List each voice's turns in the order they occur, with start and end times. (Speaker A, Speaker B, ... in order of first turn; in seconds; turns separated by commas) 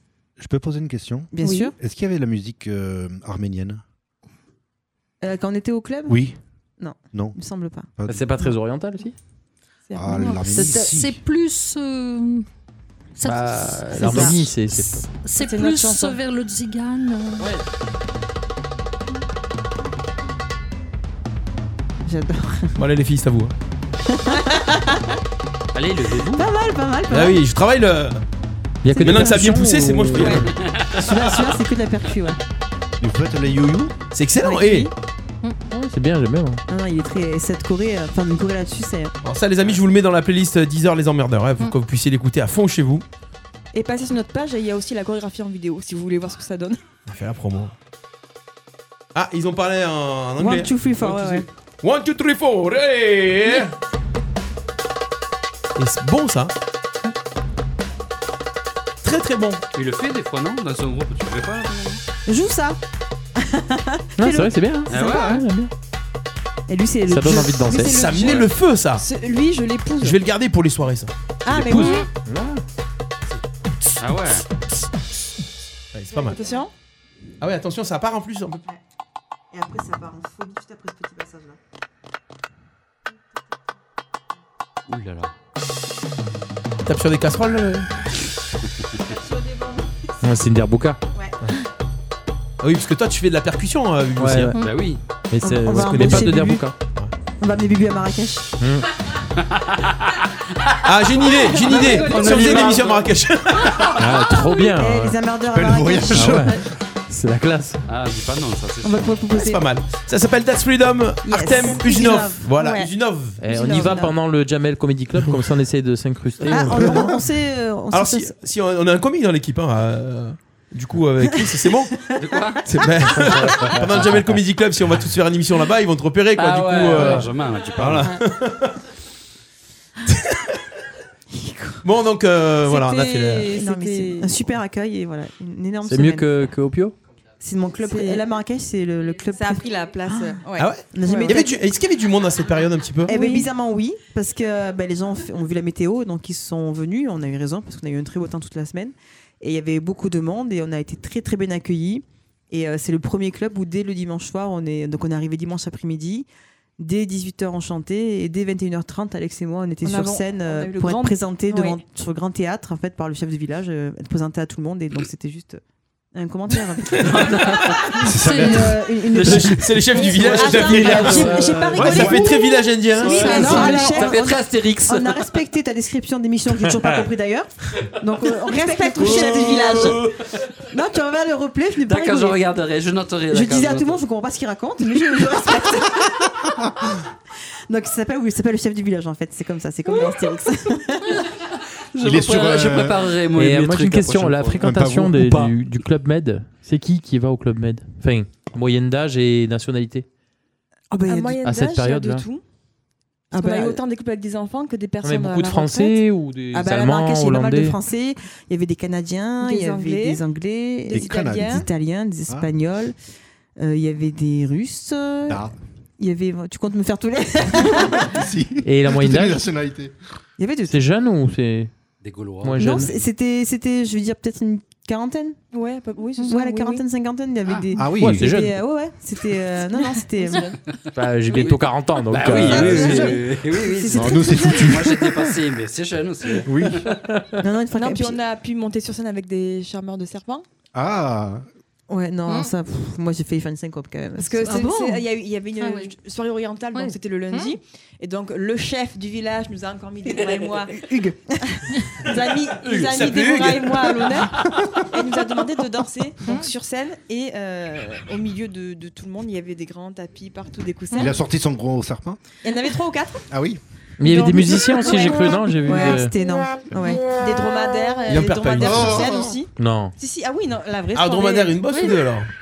Speaker A: 0.4-3.8, Speaker B: 1.3-1.7, Speaker C: 1.4-1.7, Speaker B: 5.2-6.2, Speaker A: 6.1-6.4, Speaker B: 6.8-7.9, Speaker A: 8.0-8.2, Speaker D: 8.1-9.2, Speaker C: 9.9-10.2, Speaker A: 9.9-11.2, Speaker E: 10.1-12.4, Speaker E: 13.2-17.5, Speaker D: 13.2-15.1, Speaker B: 13.9-14.5, Speaker C: 15.3-16.2, Speaker B: 22.0-22.8, Speaker F: 22.8-23.5, Speaker B: 24.1-25.0, Speaker G: 25.7-26.5, Speaker B: 26.3-27.4, Speaker F: 27.1-28.2, Speaker D: 28.8-30.4, Speaker B: 28.9-32.4, Speaker F: 29.0-30.5, Speaker G: 30.5-31.3, Speaker A: 33.0-33.9, Speaker F: 34.1-34.9, Speaker B: 34.4-34.9, Speaker D: 35.7-36.6, Speaker B: 36.7-39.1, Speaker F: 39.2-43.0, Speaker C: 43.7-46.8, Speaker F: 47.1-47.7, Speaker F: 49.1-53.7, Speaker B: 50.4-51.5, Speaker F: 55.8-56.5, Speaker F: 59.0-59.6, Speaker G: 59.7-62.0, Speaker B: 62.3-62.8, Speaker B: 63.4-65.4, Speaker D: 64.2-65.7, Speaker G: 64.9-65.4, Speaker B: 66.7-68.4, Speaker D: 67.1-68.0, Speaker C: 67.6-70.2, Speaker F: 67.9-69.0, Speaker F: 70.0-72.0, Speaker C: 71.4-72.1, Speaker D: 72.2-72.6, Speaker G: 74.0-74.5, Speaker F: 75.9-76.4, Speaker C: 76.2-76.7, Speaker F: 77.4-78.6, Speaker B: 79.5-81.6, Speaker G: 84.9-85.3, Speaker F: 86.8-87.9, Speaker B: 89.2-90.0, Speaker D: 90.2-91.0, Speaker F: 92.6-94.5, Speaker D: 94.2-94.6, Speaker G: 94.6-95.0, Speaker D: 95.3-96.8, Speaker B: 95.4-96.7, Speaker F: 95.7-97.1, Speaker B: 97.4-98.5, Speaker D: 98.6-98.9, Speaker G: 99.5-100.0, Speaker F: 100.8-104.0, Speaker C: 101.5-102.7, Speaker B: 101.5-102.8, Speaker G: 101.9-103.1, Speaker D: 104.0-105.2, Speaker B: 104.7-106.5, Speaker A: 105.5-106.6, Speaker D: 106.1-107.8, Speaker G: 107.9-109.1, Speaker B: 108.8-109.7, Speaker F: 109.3-113.4, Speaker B: 111.2-112.6, Speaker C: 111.5-112.9, Speaker D: 113.4-117.1, Speaker B: 113.4-114.2, Speaker C: 113.5-114.1, Speaker B: 116.5-118.4, Speaker F: 116.5-117.2, Speaker F: 117.9-121.9, Speaker G: 122.1-122.7, Speaker F: 122.6-128.8, Speaker D: 123.4-123.7, Speaker G: 126.4-128.1, Speaker F: 130.1-130.4, Speaker B: 131.3-131.8, Speaker F: 131.8-133.5, Speaker C: 132.6-134.4, Speaker B: 133.5-136.3, Speaker D: 135.8-136.9, Speaker B: 137.4-141.6, Speaker C: 137.8-138.2, Speaker C: 139.3-141.4, Speaker F: 140.6-143.1, Speaker B: 143.1-156.3, Speaker C: 143.1-143.5, Speaker B: 156.8-165.6, Speaker C: 159.8-161.8, Speaker B: 166.1-172.5, Speaker E: 167.8-168.7, Speaker A: 168.0-168.7, Speaker F: 169.1-173.5, Speaker C: 169.9-174.1, Speaker E: 173.0-174.1, Speaker B: 173.0-180.0, Speaker G: 173.6-175.2, Speaker D: 176.6-177.0, Speaker C: 178.5-180.1, Speaker G: 179.0-180.1, Speaker B: 180.7-182.5, Speaker G: 181.8-184.0, Speaker B: 183.3-186.4, Speaker B: 187.7-191.2, Speaker G: 191.9-194.6, Speaker A: 192.0-193.1, Speaker D: 193.3-200.1, Speaker A: 194.6-195.5, Speaker B: 200.9-201.5, Speaker C: 201.0-202.4, Speaker D: 201.4-202.2, Speaker B: 203.3-203.8, Speaker C: 203.3-206.0, Speaker D: 205.0-207.8, Speaker B: 206.5-212.9, Speaker C: 209.4-210.2, Speaker C: 210.8-211.7, Speaker A: 210.9-211.7, Speaker B: 213.6-215.4, Speaker A: 215.3-215.5, Speaker B: 216.0-218.1, Speaker A: 217.7-219.9, Speaker D: 218.6-219.4, Speaker B: 220.4-220.8, Speaker D: 220.7-221.7, Speaker G: 222.0-222.6, Speaker D: 222.4-222.9, Speaker B: 222.6-225.4, Speaker C: 225.5-226.8, Speaker B: 226.2-230.5, Speaker A: 227.8-228.3, Speaker D: 227.9-228.6, Speaker C: 229.7-230.6, Speaker D: 230.9-233.1, Speaker G: 231.3-236.8, Speaker B: 232.4-235.0, Speaker A: 233.9-235.3, Speaker A: 236.4-236.8, Speaker D: 236.9-237.4, Speaker B: 237.4-238.2, Speaker C: 237.7-240.4, Speaker A: 240.7-241.4, Speaker B: 241.9-244.9, Speaker C: 244.2-250.9, Speaker E: 244.4-245.0, Speaker E: 245.6-245.9, Speaker E: 246.7-247.5, Speaker B: 250.7-251.7, Speaker C: 252.0-261.2, Speaker F: 252.6-254.2, Speaker A: 260.9-262.2, Speaker C: 262.4-263.2, Speaker A: 263.3-263.6, Speaker D: 264.0-266.1, Speaker B: 264.0-267.1, Speaker C: 266.8-271.6, Speaker F: 268.1-269.1, Speaker A: 268.6-269.3, Speaker D: 269.6-269.9, Speaker F: 270.9-272.3, Speaker E: 271.7-272.0